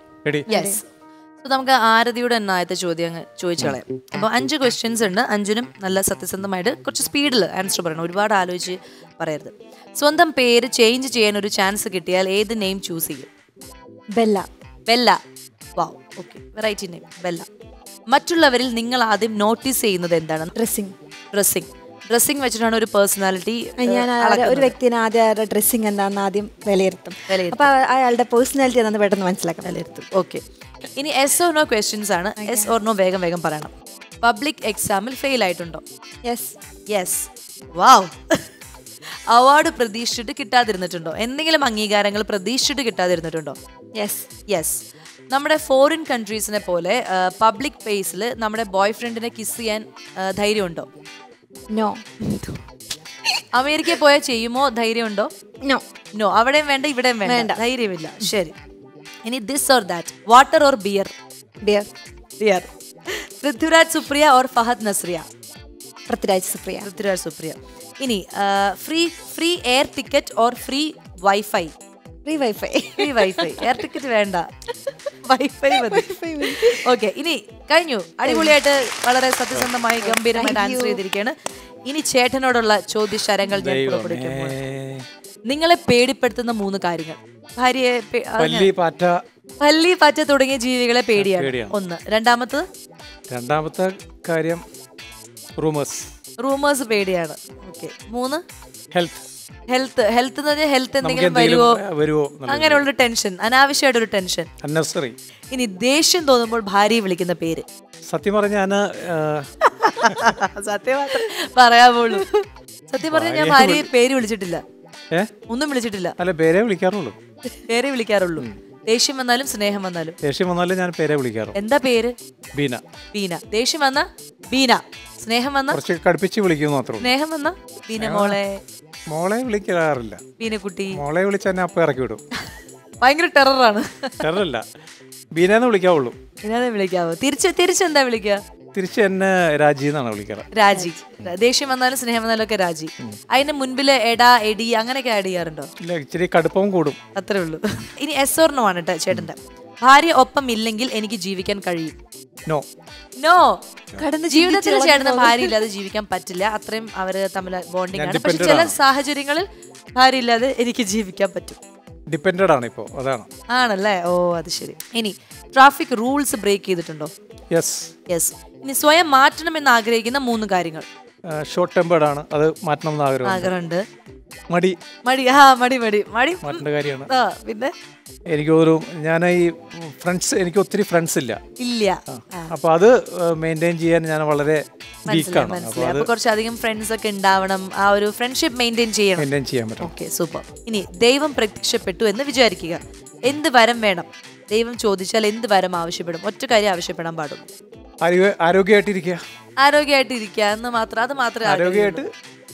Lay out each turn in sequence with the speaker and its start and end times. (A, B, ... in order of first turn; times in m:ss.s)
0:00.5-0:00.8 A
0:00.5-0:00.9 B
0:01.4-0:13.3 B
0:14.1-0:14.5 A
0:14.9-0:15.2 B
0:15.8-0:17.5 B
0:18.1-0:20.5 B
0:20.6-0:20.9 A
0:21.3-0:24.7 B
0:23.8-0:29.8 A
0:27.3-0:27.7 B
0:29.6-0:30.4 B
0:30.9-0:35.8 B
0:32.4-0:32.7 A
0:36.3-0:36.6 A
0:36.9-0:38.5 B
0:39.3-0:43.6 B
0:44.0-0:44.3 A
0:44.5-0:50.9 B
0:51.7-0:52.6 A
0:53.5-0:55.3 B
0:56.2-0:58.5 B
0:57.2-0:57.6 A
0:59.2-1:01.1 B
1:01.6-1:01.9 A
1:02.4-1:05.2 B
1:06.1-1:06.9 A
1:06.8-1:11.7 B
1:12.2-1:13.9 A
1:13.0-1:14.5 B
1:15.2-1:21.3 B
1:15.7-1:16.9 A
1:18.2-1:18.5 A
1:20.0-1:21.0 A
1:21.8-1:24.5 B
1:23.5-1:25.0 C
1:25.5-1:28.7 B
1:28.4-1:29.2 C
1:29.6-1:32.6 B
1:31.1-1:31.7 C
1:33.3-1:34.6 C
1:35.6-1:36.1 C
1:36.4-1:38.4 B
1:38.9-1:39.2 C
1:39.7-1:41.8 B
1:41.0-1:42.8 C
1:42.5-1:44.5 B
1:44.6-1:45.1 C
1:45.5-1:47.6 B
1:48.0-1:49.5 C
1:49.6-1:52.3 B
1:52.9-1:54.6 B
1:53.1-1:53.9 C
1:55.5-1:56.1 B
1:56.2-1:57.2 C
1:57.5-2:00.2 B
2:00.2-2:01.5 C
2:01.5-2:02.1 B
2:02.5-2:02.8 C
2:03.1-2:05.8 B
2:05.7-2:07.1 C
2:07.0-2:08.6 B
2:08.0-2:08.4 C
2:09.1-2:10.2 C
2:10.4-2:11.0 B
2:10.9-2:12.2 C
2:13.0-2:14.3 B
2:14.2-2:14.6 C
2:15.3-2:16.2 C
2:16.4-2:18.4 B
2:18.7-2:20.5 C
2:20.5-2:25.7 B
2:20.7-2:21.2 A
2:25.8-2:27.0 C
2:27.2-2:32.0 B
2:33.2-2:33.6 B
2:34.0-2:35.6 A
2:34.3-2:41.6 B
2:37.9-2:38.8 C
2:42.1-2:43.3 C
2:43.5-2:47.1 B
2:47.5-2:47.9 C
2:48.1-2:50.8 B
2:51.4-2:53.5 C
2:53.2-2:53.8 B
2:54.5-2:54.8 C
2:55.0-2:57.7 B
2:56.4-2:57.1 C
2:58.3-3:01.4 C
3:01.6-3:02.5 B
3:02.1-3:06.1 C
3:05.1-3:09.3 B
3:09.2-3:09.9 C
3:09.8-3:17.5 B
3:18.0-3:19.2 C
3:19.6-3:22.0 B
3:21.4-3:22.1 C